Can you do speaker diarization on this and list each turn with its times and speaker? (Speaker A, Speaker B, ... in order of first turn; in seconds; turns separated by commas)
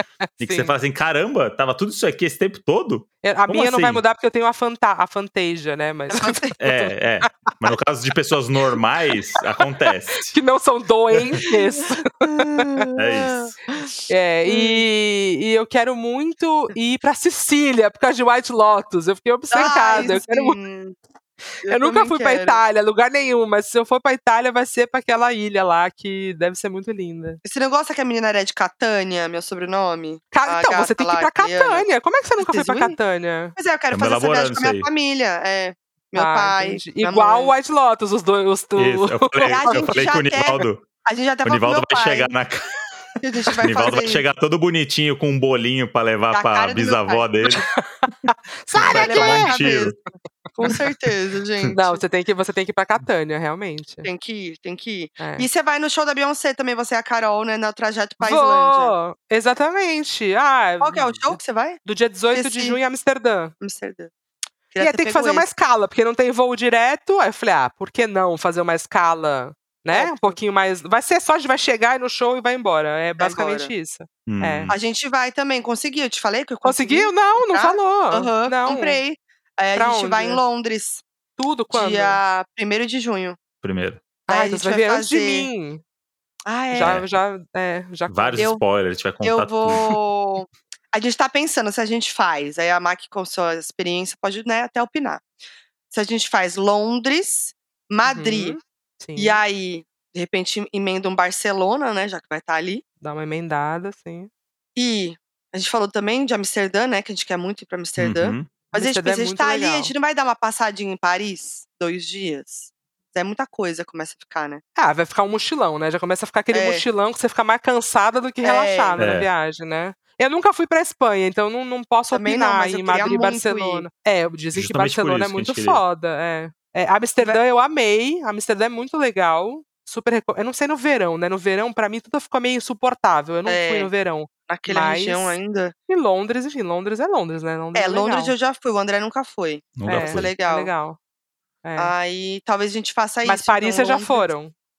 Speaker A: 0.2-0.7, Speaker B: 0.4-4.0, Speaker A: 3.2-6.9, Speaker C: 6.1-6.6, Speaker B: 6.6-10.3, Speaker A: 10.2-12.9, Speaker C: 12.2-14.9, Speaker B: 13.0-13.5, Speaker A: 14.1-20.6, Speaker C: 19.5-21.0, Speaker C: 21.6-22.6, Speaker A: 21.7-27.4, Speaker C: 27.4-31.9, Speaker A: 30.3-33.6, Speaker C: 32.4-33.0, Speaker C: 33.5-37.5, Speaker B: 33.9-34.9, Speaker A: 36.1-40.6, Speaker B: 38.8-40.9, Speaker C: 39.5-42.4, Speaker B: 41.5-42.7, Speaker C: 43.2-44.2, Speaker B: 43.6-47.7, Speaker C: 46.3-47.3, Speaker A: 47.5-49.6, Speaker B: 48.7-50.0, Speaker C: 48.9-50.0, Speaker C: 50.5-52.0, Speaker A: 51.7-54.1, Speaker C: 54.0-59.0, Speaker A: 55.2-55.5, Speaker A: 58.2-63.5, Speaker C: 60.8-61.8, Speaker C: 62.3-62.8, Speaker C: 63.6-64.1, Speaker C: 64.7-65.5, Speaker A: 64.8-74.7, Speaker C: 69.9-70.4, Speaker C: 73.2-73.7, Speaker B: 74.3-74.8, Speaker C: 74.7-81.0, Speaker A: 76.6-79.0, Speaker A: 79.8-80.4, Speaker A: 81.4-82.2, Speaker C: 81.7-83.4, Speaker B: 83.6-84.0, Speaker C: 84.3-85.5, Speaker A: 84.3-85.8, Speaker C: 86.5-87.0, Speaker A: 86.7-88.5, Speaker B: 86.8-87.1, Speaker B: 88.1-89.8, Speaker C: 89.2-95.2, Speaker C: 95.9-98.6, Speaker A: 98.0-99.4, Speaker C: 99.2-102.8, Speaker A: 103.0-104.3, Speaker C: 104.8-114.6, Speaker B: 108.0-108.5, Speaker A: 108.7-109.9, Speaker A: 114.8-138.3, Speaker C: 116.5-116.8, Speaker C: 118.4-119.0, Speaker B: 119.0-119.3, Speaker C: 122.1-123.9, Speaker B: 124.5-125.8, Speaker C: 133.5-133.9, Speaker C: 134.5-135.7, Speaker C: 137.8-140.7, Speaker B: 139.8-140.3, Speaker A: 139.8-141.0, Speaker A: 141.6-141.9, Speaker C: 141.8-144.3, Speaker A: 143.2-144.6